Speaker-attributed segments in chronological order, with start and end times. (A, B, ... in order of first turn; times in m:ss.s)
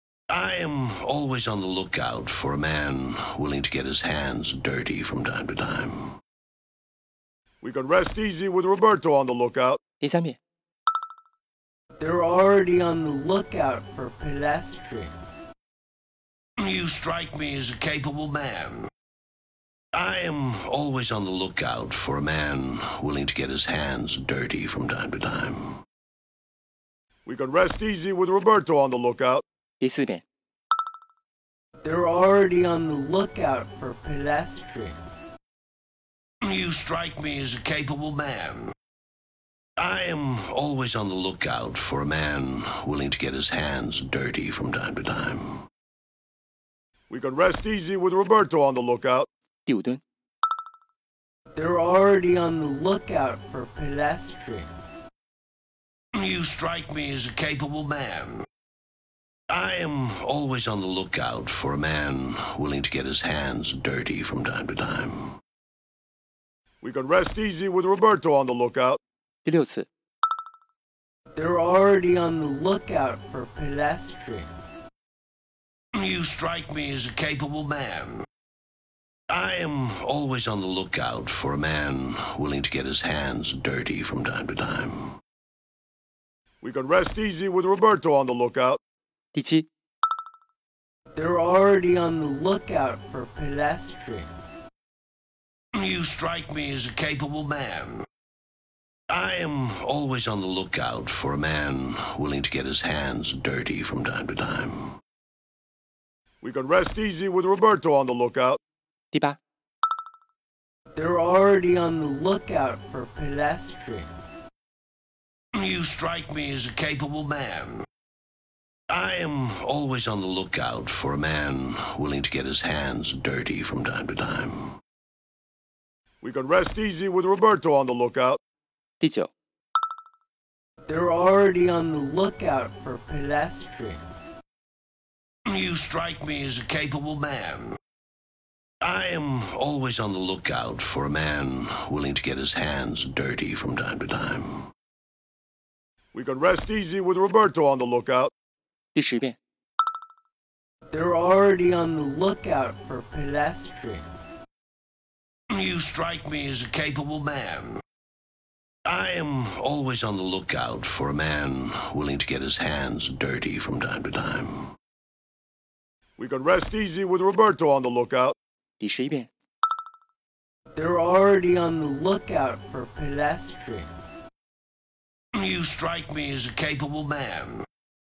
0:00.3-0:06.0 A
0:07.6-0:09.8 B
0:10.0-0:10.4 C
0:12.0-0:15.2 D
0:16.6-0:18.9 A
0:19.9-0:25.7 A
0:27.3-0:29.4 B
0:29.8-0:30.2 C
0:31.8-0:35.0 D
0:36.4-0:38.7 A
0:39.8-0:45.5 A
0:47.1-0:49.3 B
0:49.7-0:50.0 C
0:51.6-0:54.7 D
0:56.1-0:58.4 A
0:59.5-1:05.2 A
1:06.8-1:09.0 B
1:09.4-1:09.9 C
1:11.4-1:14.5 D
1:15.9-1:18.2 A
1:19.3-1:25.0 A
1:26.6-1:28.8 B
1:29.3-1:29.7 C
1:31.2-1:34.3 D
1:35.7-1:38.0 A
1:39.1-1:44.8 A
1:46.4-1:48.6 B
1:49.1-1:49.4 C
1:51.0-1:54.1 D
1:55.5-1:57.8 A
1:58.9-2:04.6 A
2:06.2-2:08.4 B
2:09.0-2:09.3 C
2:10.9-2:14.1 D
2:15.5-2:17.8 A
2:18.8-2:24.5 A
2:26.1-2:28.3 B
2:29.0-2:29.4 C
2:30.9-2:34.1 D
2:35.5-2:37.8 A
2:38.9-2:44.6 A
2:46.2-2:48.4 B
2:48.8-2:49.3 C
2:50.8-2:53.9 D
2:55.3-2:57.6 A